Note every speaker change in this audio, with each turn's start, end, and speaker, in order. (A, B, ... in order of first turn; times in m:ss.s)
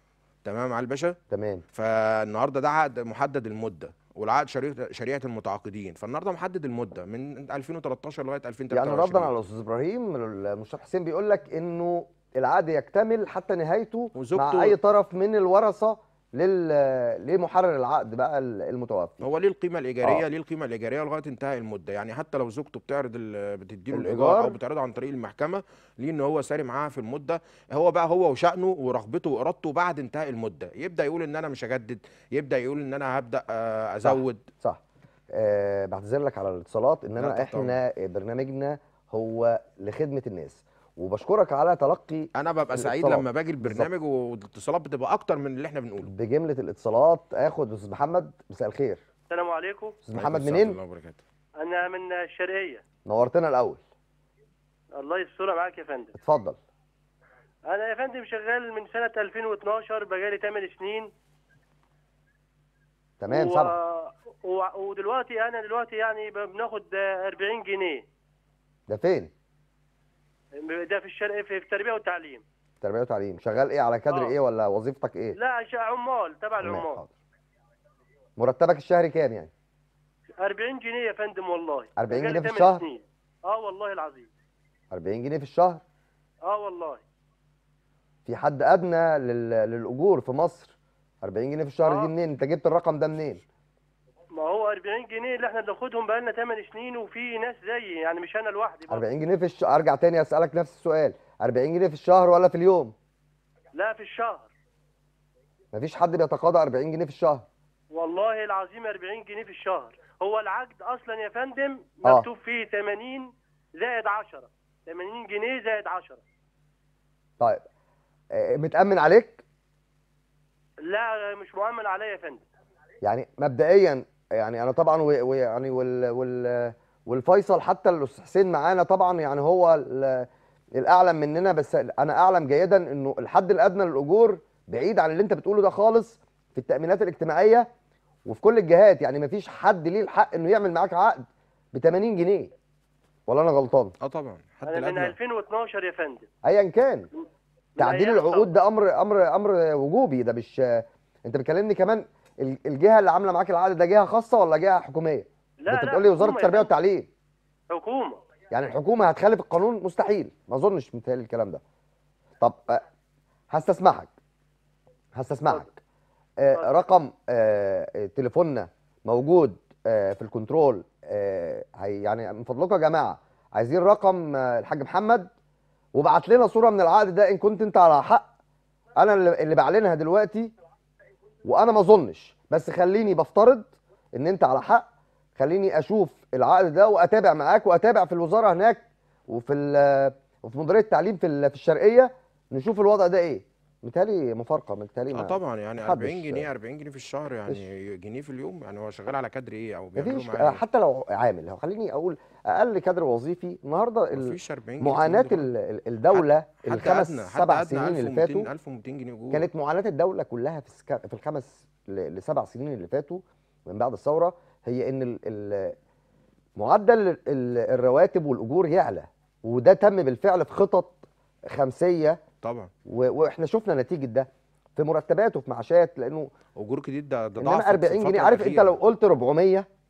0:00.4-0:01.2 A
0:01.3-0:01.6 B
0:01.7-0:09.3 A
0:08.7-0:19.2 B
0:14.1-0:14.8 A
0:19.2-0:34.4 A
0:23.9-0:24.6 B
0:34.0-0:34.8 B
0:35.3-0:43.9 B
0:37.2-0:37.8 A
0:42.4-0:46.1 A
0:46.0-0:49.0 B
0:49.3-0:50.0 C
0:50.0-0:50.8 B
0:50.1-0:51.2 A
0:51.6-0:52.8 C
0:53.0-0:53.8 B
0:55.0-0:56.1 C
0:56.2-0:56.6 B
0:57.7-1:01.1 C
1:03.2-1:03.7 B
1:03.3-1:08.0 C
1:08.9-1:09.3 B
1:10.6-1:12.4 C
1:12.8-1:15.4 B
1:14.1-1:14.4 C
1:15.4-1:17.0 C
1:16.6-1:17.1 B
1:18.4-1:19.5 B
1:20.4-1:24.3 C
1:22.0-1:22.8 B
1:24.9-1:25.8 B
1:26.4-1:27.0 C
1:28.2-1:33.4 B
1:31.8-1:32.1 C
1:34.3-1:39.0 C
1:38.9-1:42.9 B
1:43.7-1:44.5 C
1:45.7-1:47.4 B
1:47.9-1:56.2 C
1:58.3-1:59.4 B
2:00.8-2:02.4 C
2:03.0-2:17.7 B
2:18.2-2:22.5 B
2:23.3-2:23.9 B
2:24.0-2:25.1 A
2:24.7-2:26.3 C
2:26.4-2:27.1 B
2:27.2-2:28.5 C
2:27.8-2:37.1 B
2:35.6-2:36.7 C
2:37.7-2:38.2 C
2:38.5-2:41.6 B
2:42.4-2:42.8 B
2:43.5-2:44.1 B
2:45.1-2:45.7 B
2:46.4-2:55.3 B
2:55.9-2:58.3 B
2:59.0-3:00.5 B
3:01.4-3:16.5 B
3:15.1-3:20.6 A
3:20.0-3:28.5 B
3:24.1-3:25.5 A
3:26.1-3:29.4 A
3:29.3-3:35.8 B
3:36.6-3:42.2 B
3:42.4-3:42.7 A
3:42.9-3:46.3 B
3:46.6-3:48.8 A
3:47.4-3:49.7 B